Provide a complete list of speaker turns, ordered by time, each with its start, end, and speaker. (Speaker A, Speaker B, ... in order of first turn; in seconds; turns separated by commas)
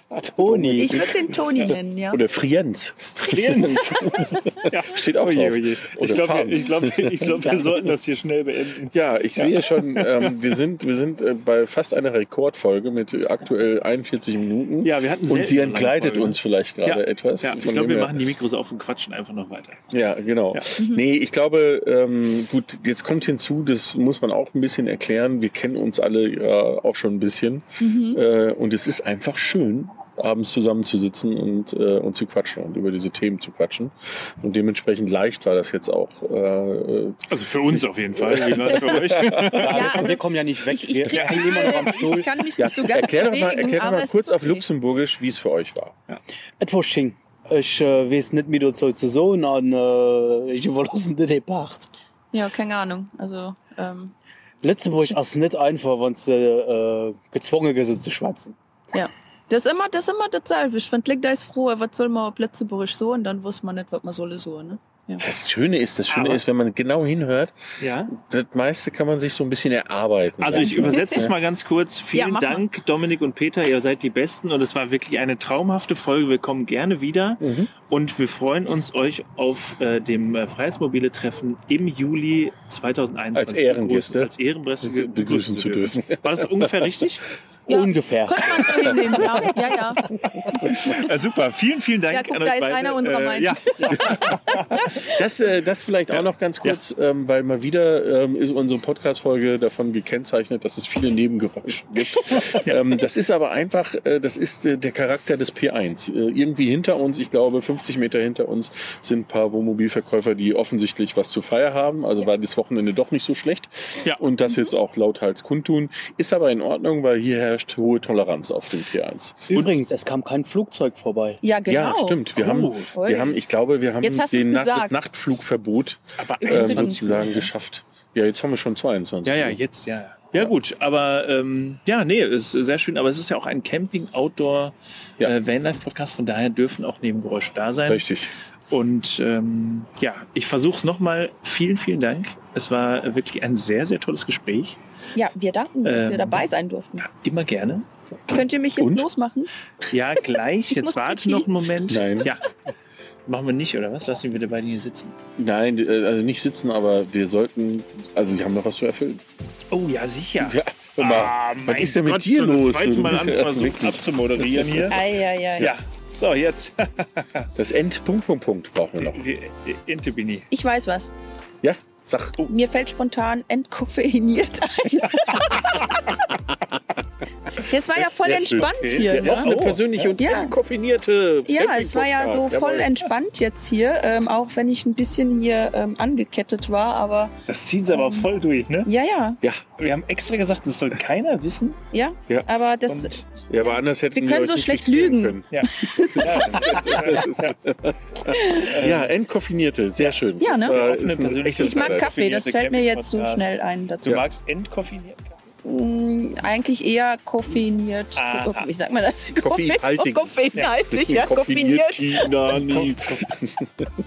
Speaker A: 0.1-7.5, Speaker B: 0.2-1.1, Speaker C: 0.8-2.2, Speaker D: 3.3-10.4, Speaker A: 8.9-18.2, Speaker D: 14.8-19.8, Speaker A: 19.9-39.6, Speaker C: 20.8-21.0, Speaker C: 27.8-28.2, Speaker D: 37.3-40.0, Speaker B: 39.3-42.5, Speaker C: 39.6-44.6, Speaker A: 42.6-46.0, Speaker B: 46.6-51.9, Speaker C: 52.3-54.1, Speaker B: 54.6-58.5, Speaker C: 58.9-65.2, Speaker A: 65.2-67.5, Speaker D: 66.1-66.4, Speaker D: 67.8-68.1, Speaker A: 68.1-71.3, Speaker D: 70.4-87.2, Speaker C: 72.1-72.6, Speaker A: 77.4-77.7, Speaker A: 83.3-86.7, Speaker B: 87.7-89.0, Speaker C: 87.7-91.1, Speaker D: 90.6-95.0, Speaker C: 92.1-94.4, Speaker A: 94.8-119.7, Speaker D: 96.1-96.8, Speaker D: 102.3-102.8, Speaker C: 114.5-114.7, Speaker B: 119.5-121.4, Speaker C: 121.4-122.3, Speaker A: 121.7-129.6, Speaker D: 122.4-122.9, Speaker C: 122.9-123.4, Speaker C: 124.0-125.0, Speaker D: 126.2-127.5, Speaker C: 126.4-127.5, Speaker D: 129.2-138.1, Speaker A: 137.9-138.3, Speaker D: 138.7-144.8, Speaker C: 145.2-147.1, Speaker D: 145.8-146.5, Speaker D: 147.0-147.8, Speaker C: 148.3-149.5, Speaker A: 148.8-149.1, Speaker D: 149.9-152.5, Speaker C: 150.7-152.0, Speaker A: 151.9-152.3, Speaker D: 153.2-155.2, Speaker A: 155.4-159.2, Speaker D: 159.7-165.0, Speaker A: 160.4-165.0, Speaker C: 164.9-165.7, Speaker D: 165.6-167.5, Speaker A: 167.5-169.2, Speaker D: 169.0-170.5, Speaker C: 170.5-171.1, Speaker A: 171.6-172.4, Speaker C: 172.4-176.0, Speaker C: 177.5-179.6, Speaker D: 178.0-180.1, Speaker A: 178.2-182.9, Speaker C: 180.2-180.6, Speaker C: 181.4-187.3, Speaker D: 187.5-188.9, Speaker C: 187.9-188.3, Speaker C: 188.8-189.4, Speaker D: 189.8-191.8, Speaker C: 191.9-197.0, Speaker D: 192.9-193.2, Speaker A: 193.5-195.5, Speaker D: 195.5-197.5, Speaker A: 196.0-202.1, Speaker C: 198.3-198.7, Speaker D: 198.6-199.1, Speaker D: 200.0-203.5, Speaker C: 200.4-200.8, Speaker C: 201.6-204.2, Speaker D: 204.0-205.3, Speaker C: 205.6-212.3, Speaker D: 208.2-208.7, Speaker A: 209.4-213.8, Speaker D: 212.5-213.3